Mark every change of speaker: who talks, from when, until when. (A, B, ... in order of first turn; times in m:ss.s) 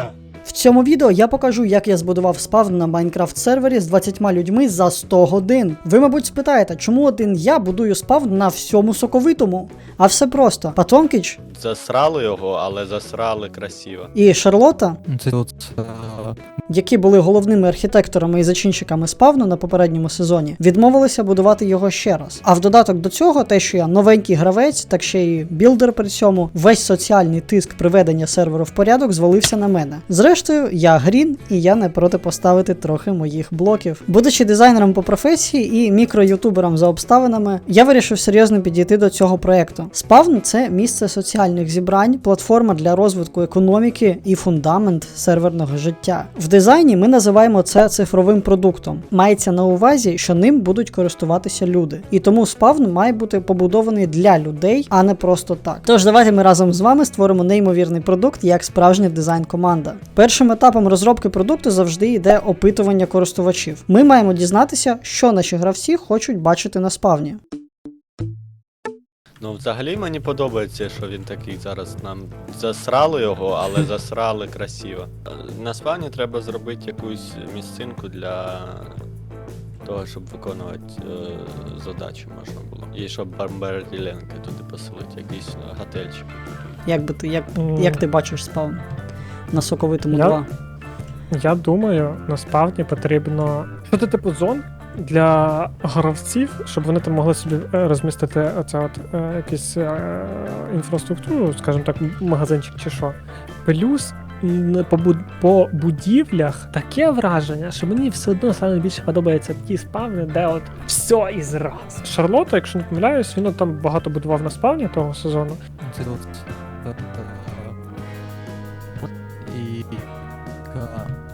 0:00.4-0:11.4 A
0:11.5-0:14.1 B
0:14.1-0:15.0 A
0:15.1-0:16.4 C
0:16.7-1:07.4 A
1:09.4-1:18.9 B
1:19.8-1:26.8 B
1:26.8-1:28.8 A
1:27.6-1:28.0 D
1:29.5-1:30.5 A
1:30.1-1:30.4 D
1:31.4-1:55.6 D
1:55.8-1:57.8 C
1:59.0-2:00.1 C
2:00.6-2:01.2 C